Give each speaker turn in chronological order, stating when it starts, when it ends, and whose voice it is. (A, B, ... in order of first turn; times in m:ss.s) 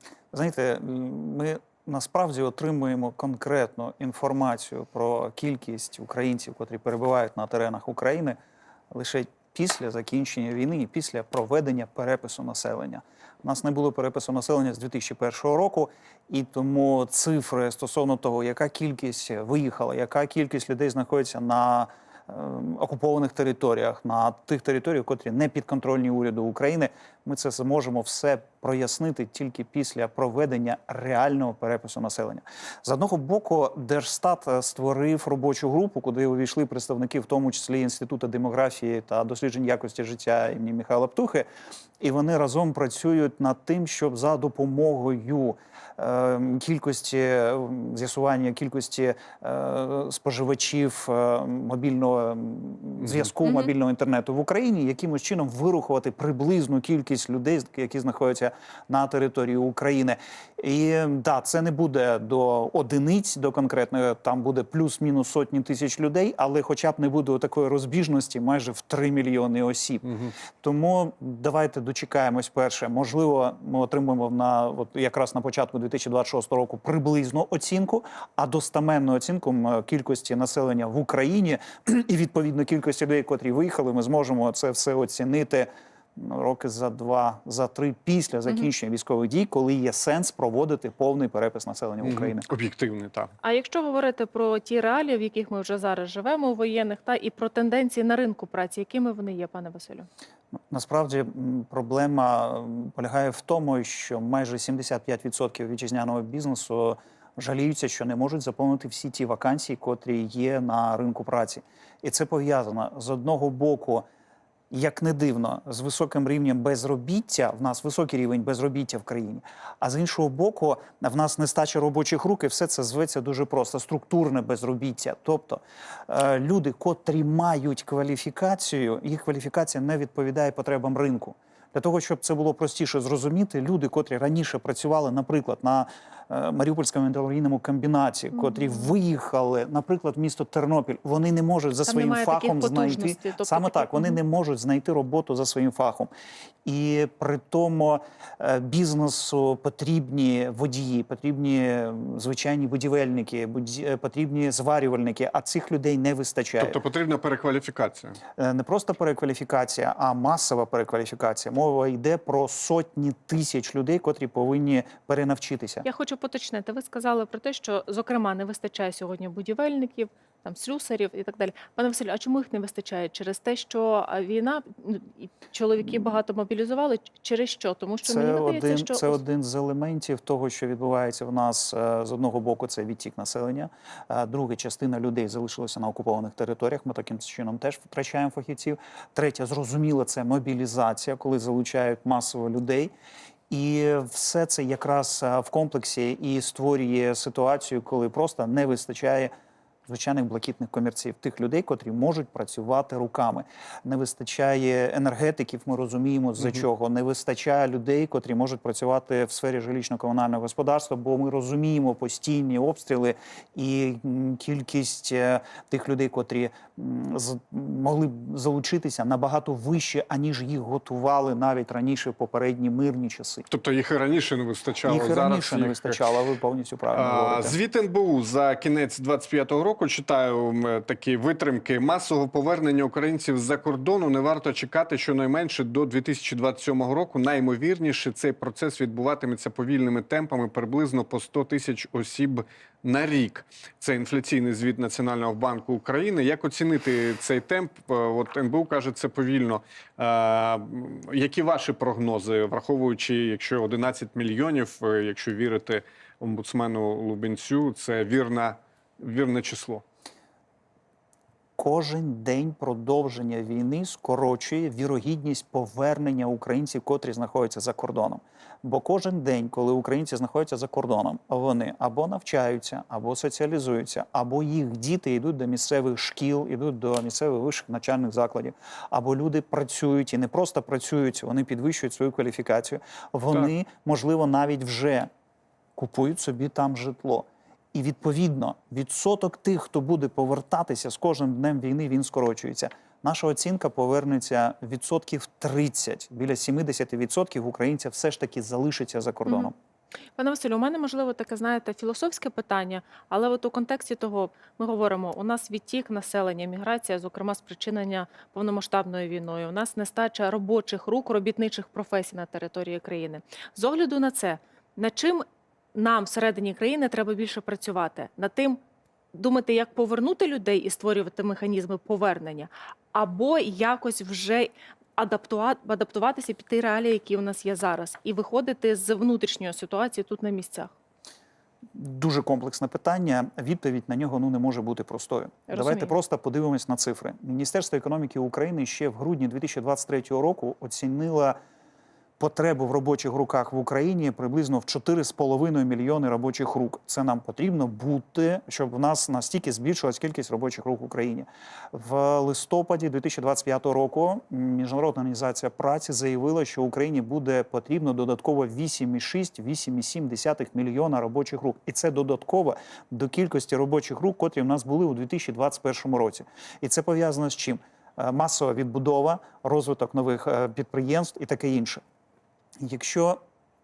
0:00.3-0:08.4 A
0:08.9-0:41.5 A
0:42.0-1:32.4 A
0:53.4-0:53.7 B
1:32.0-1:33.3 C
1:33.4-1:40.1 B
1:40.7-1:54.0 A
1:54.7-2:26.1 A
2:21.8-2:24.2 B
2:26.6-2:36.8 A
2:36.6-2:38.2 C
2:38.4-2:45.8 A
2:45.8-2:59.2 B
2:58.0-3:12.9 A
3:13.5-3:19.3 A
3:19.8-3:43.4 A
3:43.5-3:46.0 C
3:44.8-3:47.6 A
3:46.9-4:19.8 C
4:21.6-4:45.1 A
4:45.8-4:59.5 A
5:00.2-5:18.6 B
5:19.1-5:30.7 B
5:31.7-5:41.4 A
5:35.5-5:35.9 B
5:42.2-6:11.8 A
6:12.6-6:13.2 A